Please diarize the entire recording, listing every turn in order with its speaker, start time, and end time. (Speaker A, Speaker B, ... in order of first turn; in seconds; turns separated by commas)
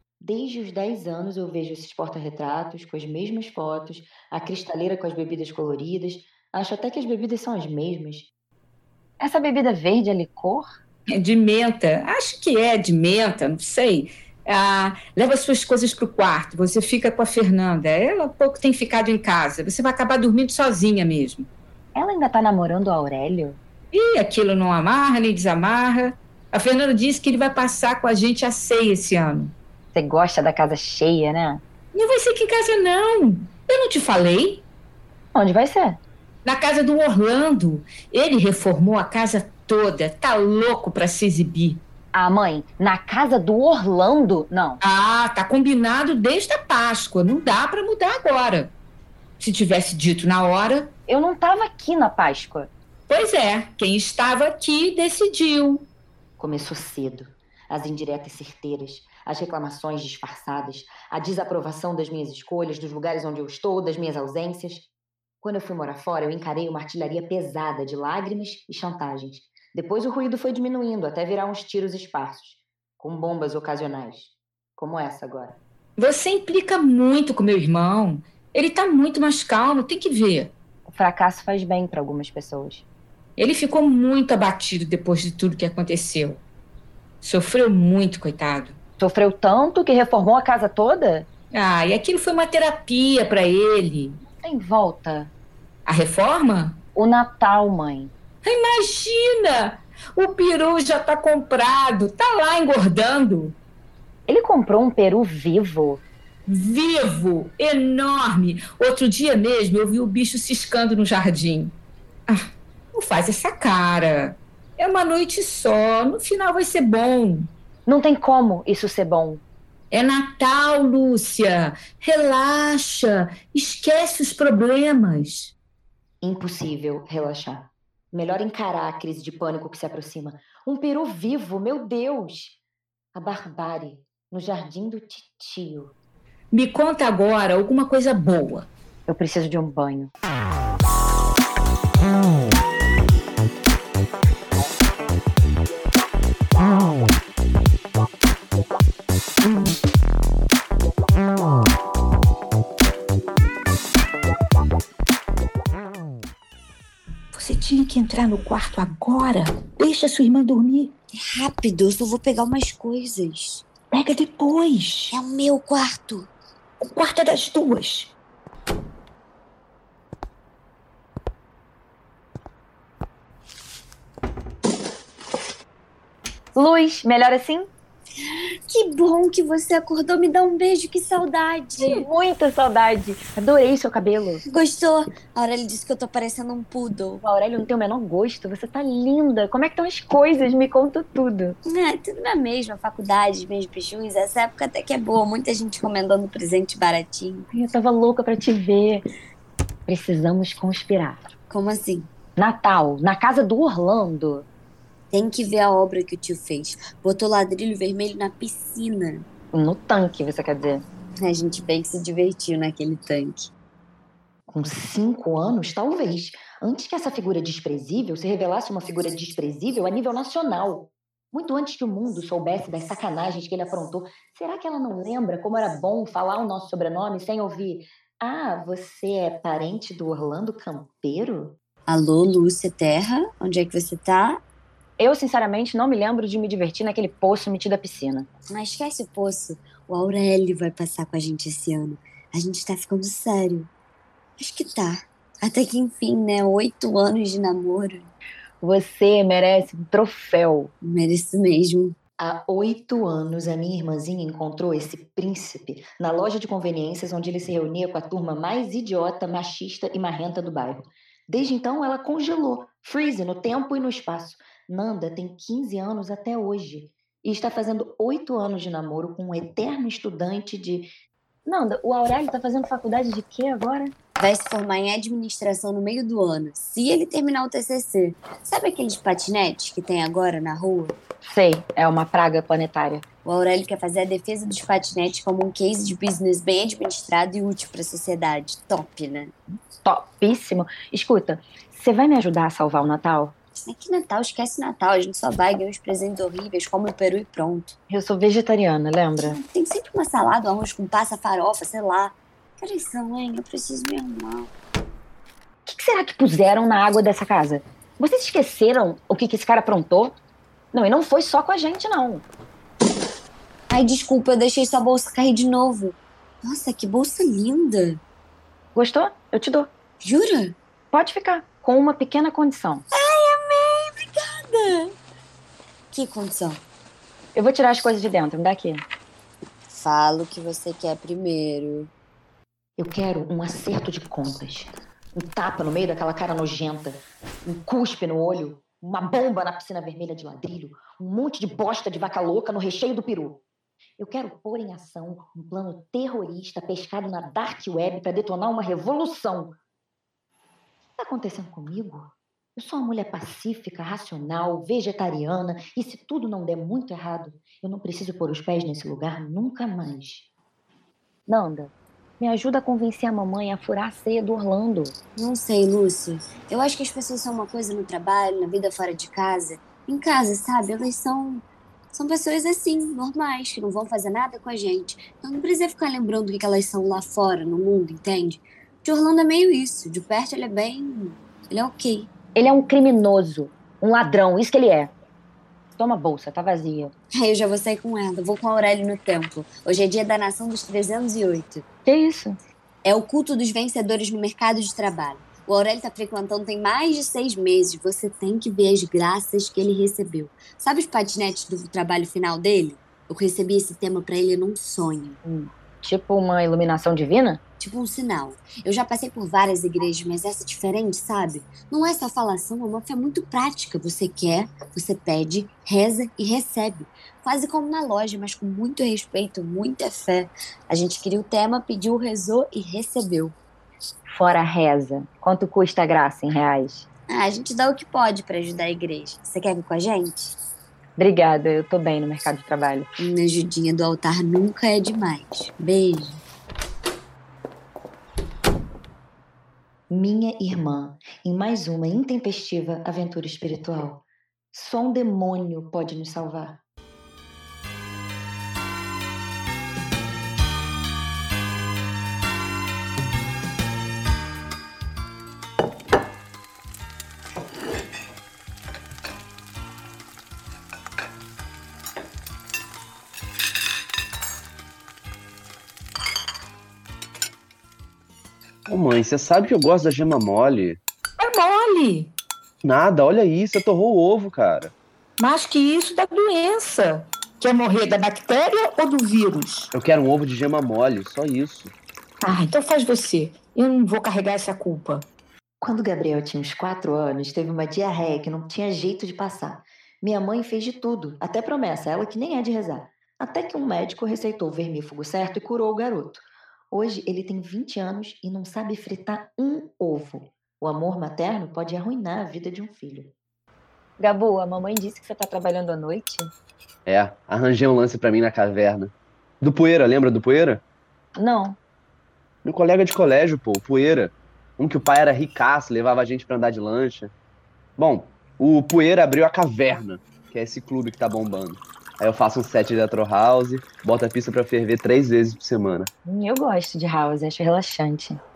Speaker A: 0.2-8.3, Speaker A: 9.2-10.7, Speaker B: 11.1-21.5, Speaker A: 21.9-23.6, Speaker B: 23.9-29.5, Speaker A: 29.9-31.6, Speaker B: 31.9-34.6, Speaker A: 35.3-36.0, Speaker B: 36.4-41.8, Speaker A: 42.1-44.8, Speaker B: 44.8-48.7, Speaker B: 49.4-50.9, Speaker A: 51.1-52.7, Speaker B: 53.1-55.9, Speaker A: 56.4-64.9, Speaker A: 65.4-75.6, Speaker B: 76.0-80.5, Speaker A: 80.9-82.8, Speaker B: 83.4-86.4, Speaker B: 87.2-88.8, Speaker A: 89.0-91.3, Speaker B: 91.5-94.2, Speaker A: 94.3-95.3, Speaker B: 95.8-96.8, Speaker A: 96.9-98.1, Speaker B: 98.4-103.6, Speaker A: 104.3-106.0, Speaker B: 106.5-111.7, Speaker B: 112.3-117.5, Speaker A: 117.8-119.4, Speaker B: 119.9-125.5, Speaker A: 126.2-132.6, Speaker A: 133.1-135.9, Speaker B: 136.5-138.7, Speaker A: 139.1-140.1, Speaker B: 157.3-160.9, Speaker C: 161.1-163.7, Speaker B: 163.9-165.2, Speaker C: 165.1-166.3, Speaker B: 166.8-168.1, Speaker A: 176.5-177.7, Speaker C: 178.7-182.1, Speaker A: 181.8-184.4, Speaker C: 184.5-187.2, Speaker A: 187.2-191.6, Speaker C: 191.7-197.5, Speaker A: 197.5-199.0, Speaker A: 199.9-201.3, Speaker C: 201.5-202.1, Speaker A: 202.4-204.5, Speaker C: 205.1-209.2, Speaker A: 209.5-210.8, Speaker C: 211.2-213.5, Speaker A: 214.5-231.6, Speaker C: 231.9-234.4, Speaker A: 235.0-238.3, Speaker C: 238.5-243.7, Speaker C: 244.4-248.1, Speaker A: 248.6-250.7, Speaker C: 250.8-251.9, Speaker A: 252.2-270.9, Speaker A: 271.4-273.9, Speaker C: 274.2-280.9, Speaker A: 281.2-283.0, Speaker C: 283.2-289.3, Speaker A: 289.8-293.4, Speaker C: 293.6-297.8, Speaker A: 297.9-299.4, Speaker C: 299.2-304.5, Speaker A: 305.6-310.2, Speaker A: 310.7-312.2, Speaker C: 313.7-318.0, Speaker A: 318.7-319.7, Speaker C: 320.0-320.6, Speaker A: 320.9-322.8, Speaker C: 322.9-324.9, Speaker C: 325.9-326.6, Speaker A: 327.3-328.9, Speaker C: 329.7-331.9, Speaker A: 332.8-343.4, Speaker A: 344.0-349.5, Speaker A: 351.0-360.3, Speaker A: 361.3-364.9, Speaker C: 365.1-382.1, Speaker A: 382.4-384.9, Speaker A: 385.8-386.9, Speaker C: 387.1-391.6, Speaker A: 391.9-392.4, Speaker C: 392.8-405.2, Speaker A: 405.2-407.4, Speaker C: 407.6-423.3, Speaker A: 424.1-426.9, Speaker C: 427.1-430.4, Speaker A: 431.0-432.9, Speaker C: 433.0-436.2, Speaker A: 439.9-446.6, Speaker D: 468.7-470.8, Speaker B: 471.2-472.1, Speaker D: 472.6-474.7, Speaker B: 475.2-479.7, Speaker D: 479.7-481.7, Speaker B: 482.2-485.1, Speaker A: 485.6-503.1, Speaker A: 504.0-506.3, Speaker D: 506.9-510.6, Speaker A: 511.2-511.6, Speaker D: 512.4-517.1, Speaker D: 517.8-525.9, Speaker A: 526.0-528.2